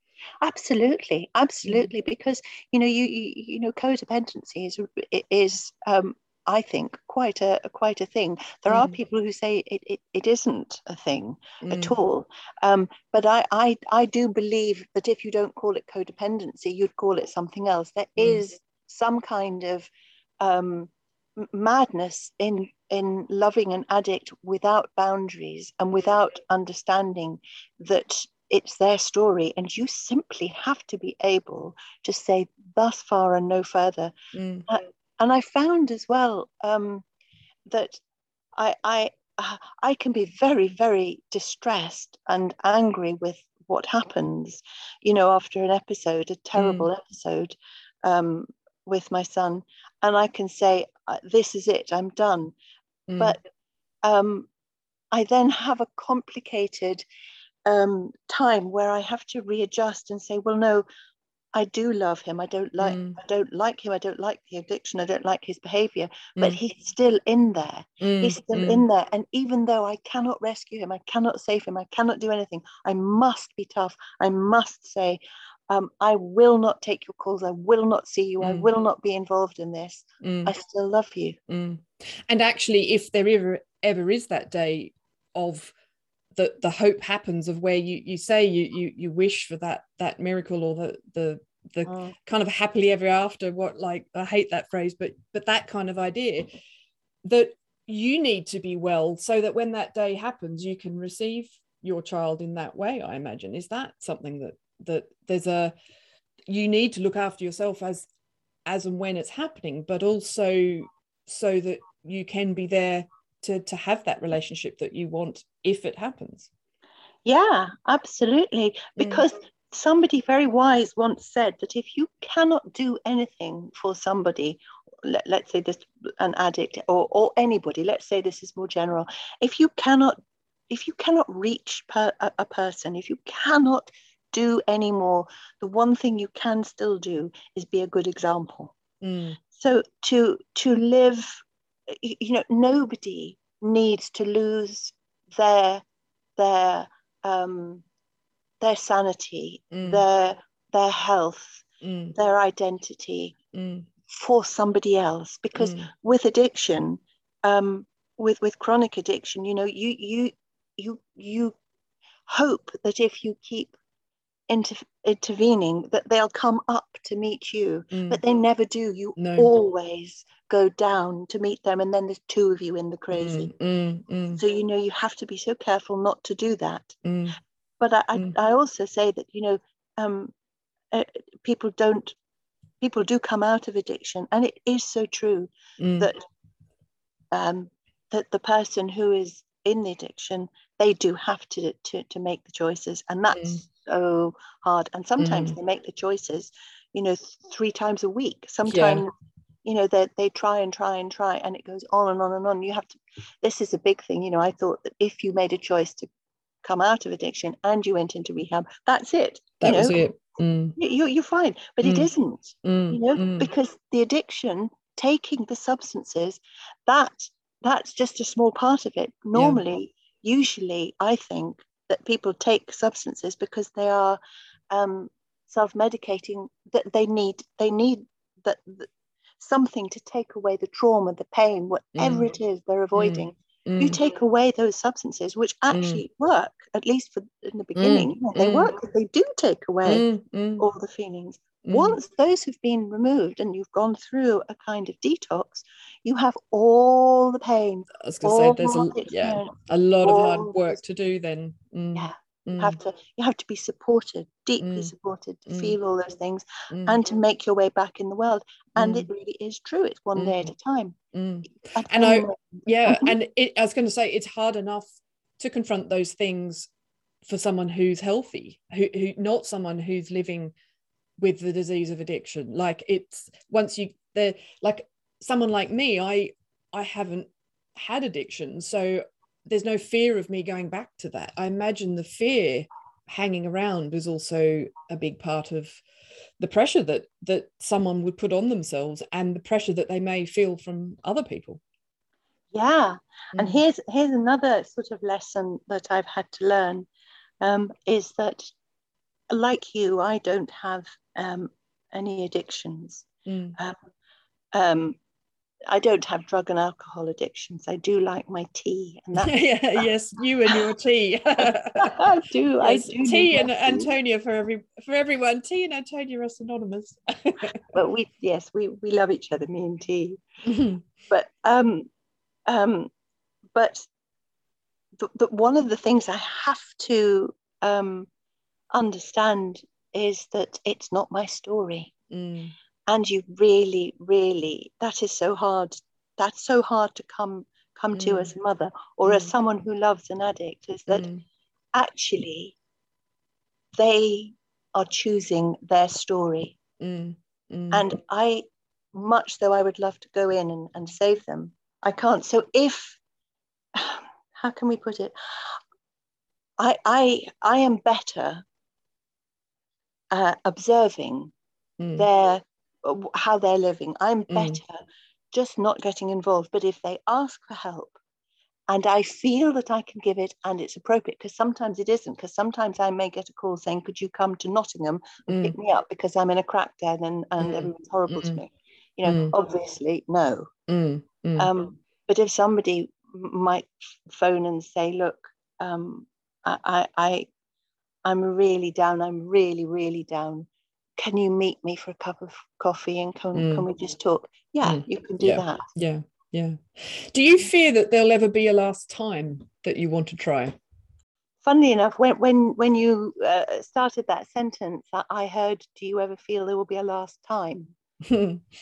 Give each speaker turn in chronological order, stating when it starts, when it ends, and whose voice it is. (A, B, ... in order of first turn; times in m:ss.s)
0:00.4-0:19.9 A
0:08.7-0:09.0 B
0:11.6-0:11.9 B
0:20.4-0:34.1 A
0:34.3-0:34.7 B
0:34.7-0:37.0 A
0:37.7-0:38.0 A
0:38.6-0:52.6 A
0:46.6-0:46.9 B
0:53.1-0:53.4 B
0:54.0-0:54.5 A
0:55.1-0:57.0 A
0:57.6-1:00.8 A
1:01.5-1:21.4 A
1:02.8-1:03.2 B
1:08.0-1:08.8 B
1:18.4-1:18.7 B
1:20.2-1:20.5 B
1:21.5-1:25.7 B
1:26.4-1:36.5 B
1:37.2-1:45.7 B
1:46.5-1:48.1 B
1:48.7-1:56.5 B
1:57.2-2:10.2 A
1:59.0-1:59.2 B
2:10.7-2:18.8 A
2:19.0-2:19.4 B
2:19.5-2:25.8 A
2:26.4-2:27.8 A
2:28.6-2:33.4 A
2:29.7-2:30.0 B
2:31.8-2:32.2 B
2:33.5-2:33.9 B
2:34.1-2:41.6 A
2:35.6-2:35.9 B
2:42.3-2:43.8 A
2:44.5-2:53.5 A
2:47.9-2:48.2 B
2:49.2-2:49.5 B
2:53.1-2:54.4 B
2:54.4-2:56.9 A
2:57.0-2:57.4 B
2:57.8-3:00.3 A
3:00.9-3:02.2 A
3:02.8-3:06.2 A
3:05.8-3:06.1 B
3:07.3-3:19.1 A
3:15.2-3:15.6 B
3:18.7-3:19.0 B
3:19.6-3:26.1 A
3:26.6-3:30.0 A
3:29.6-3:30.8 B
3:30.8-3:44.2 A
3:31.8-3:32.1 B
3:32.6-3:33.5 B
3:39.4-3:39.6 B
3:44.7-4:00.1 A
3:52.0-3:52.3 B
3:53.0-3:54.0 B
3:55.7-3:56.0 B
3:57.8-3:58.7 B
3:59.9-4:00.6 B
4:00.6-4:10.6 A
4:01.6-4:02.0 B
4:08.0-4:12.8 B
4:12.0-4:21.0 A
4:14.6-4:14.9 B
4:15.5-4:15.8 B
4:16.7-4:17.0 B
4:18.8-4:19.1 B
4:20.2-4:20.5 B
4:21.1-4:26.7 B
4:21.7-4:23.2 A
4:27.2-4:30.5 B
4:31.2-4:45.8 B
4:46.4-4:51.6 B
4:52.5-4:56.9 A
4:53.4-4:53.6 B
4:57.4-4:58.5 A
4:59.3-5:03.8 A
5:03.3-5:03.6 B
5:04.5-5:05.0 A
5:05.7-5:09.8 A
5:09.2-5:12.0 B
5:11.8-5:13.9 A
5:12.6-5:17.6 B
5:17.7-5:20.2 A
5:20.4-5:20.8 B
5:21.1-5:21.9 A
5:22.5-5:22.9 A
5:23.6-5:23.9 A
5:25.0-5:28.1 A
5:28.7-5:31.9 A
5:32.1-5:32.5 B
5:32.9-5:41.1 A
5:37.9-5:38.3 B
5:40.9-5:41.2 B
5:41.7-5:42.6 A
5:43.8-5:46.6 A
5:46.8-5:47.8 B
5:47.7-5:53.0 A
5:53.8-5:55.6 A
5:56.6-5:58.4 A
6:00.1-6:01.3 A
6:01.8-6:02.1 B
6:02.0-6:04.8 A
6:04.3-6:04.6 B
6:05.3-6:08.0 A
6:08.7-6:20.5 A
6:15.3-6:15.6 B
6:17.4-6:18.4 B
6:19.0-6:19.3 B
6:20.7-6:21.5 B
6:21.4-6:27.3 A
6:28.0-6:30.5 A
6:31.0-6:35.7 A
6:33.4-6:33.7 B
6:34.6-6:40.6 B
6:41.4-6:47.7 A
6:48.0-6:48.4 B